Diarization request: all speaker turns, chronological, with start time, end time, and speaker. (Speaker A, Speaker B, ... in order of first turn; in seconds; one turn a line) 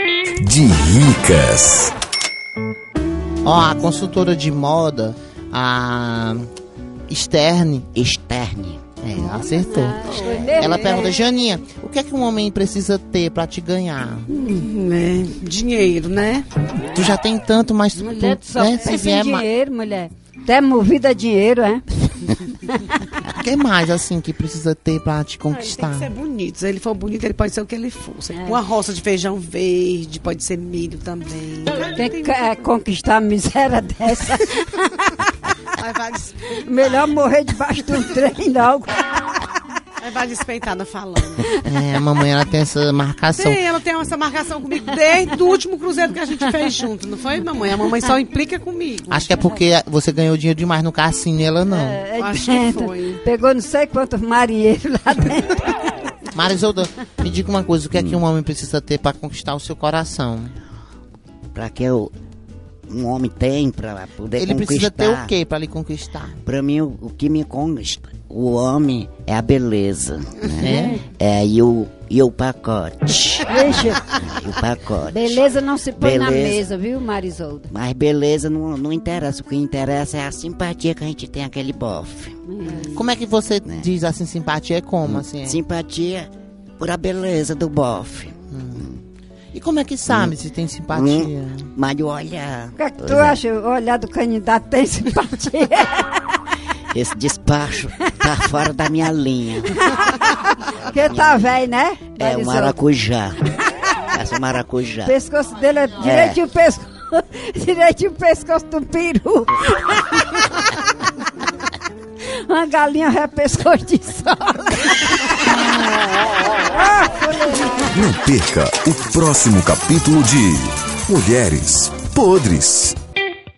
Speaker A: 0.4-1.9
Speaker B: 3.4-6.5
Speaker B: 7.1-7.9
Speaker C: 7.9-8.9
Speaker B: 9.0-14.3
Speaker D: 9.2-11.2
Speaker E: 10.1-10.5
Speaker D: 14.3-14.7
Speaker E: 14.5-16.5
Speaker D: 16.8-17.2
Speaker B: 16.9-19.5
Speaker D: 17.9-23.1
Speaker B: 23.2-26.1
Speaker E: 25.5-32.4
Speaker D: 31.9-35.2
Speaker E: 35.8-36.6
Speaker D: 36.6-39.0
Speaker E: 40.0-41.5
Speaker B: 41.5-43.6
Speaker E: 43.4-49.2
Speaker B: 49.1-52.0
Speaker D: 51.7-55.6
Speaker E: 52.2-53.2
Speaker B: 56.3-60.5
Speaker C: 58.0-58.2
Speaker C: 61.5-62.1
Speaker C: 62.9-65.3
Speaker B: 64.3-66.4
Speaker C: 66.4-75.5
Speaker B: 70.5-71.0
Speaker D: 70.6-71.0
Speaker D: 73.5-74.1
Speaker D: 75.0-77.7
Speaker C: 76.0-76.7
Speaker C: 77.7-82.4
Speaker D: 82.5-83.0
Speaker B: 82.8-85.6
Speaker C: 85.0-89.0
Speaker B: 88.5-88.8
Speaker B: 89.5-91.7
Speaker C: 90.1-90.4
Speaker C: 90.9-93.4
Speaker D: 92.8-96.1
Speaker C: 96.9-99.8
Speaker D: 99.7-102.8
Speaker C: 100.9-101.5
Speaker C: 102.2-103.5
Speaker C: 104.1-105.2
Speaker D: 105.0-110.6
Speaker C: 106.0-106.4
Speaker D: 112.3-115.6
Speaker D: 116.7-117.9
Speaker A: 117.9-123.0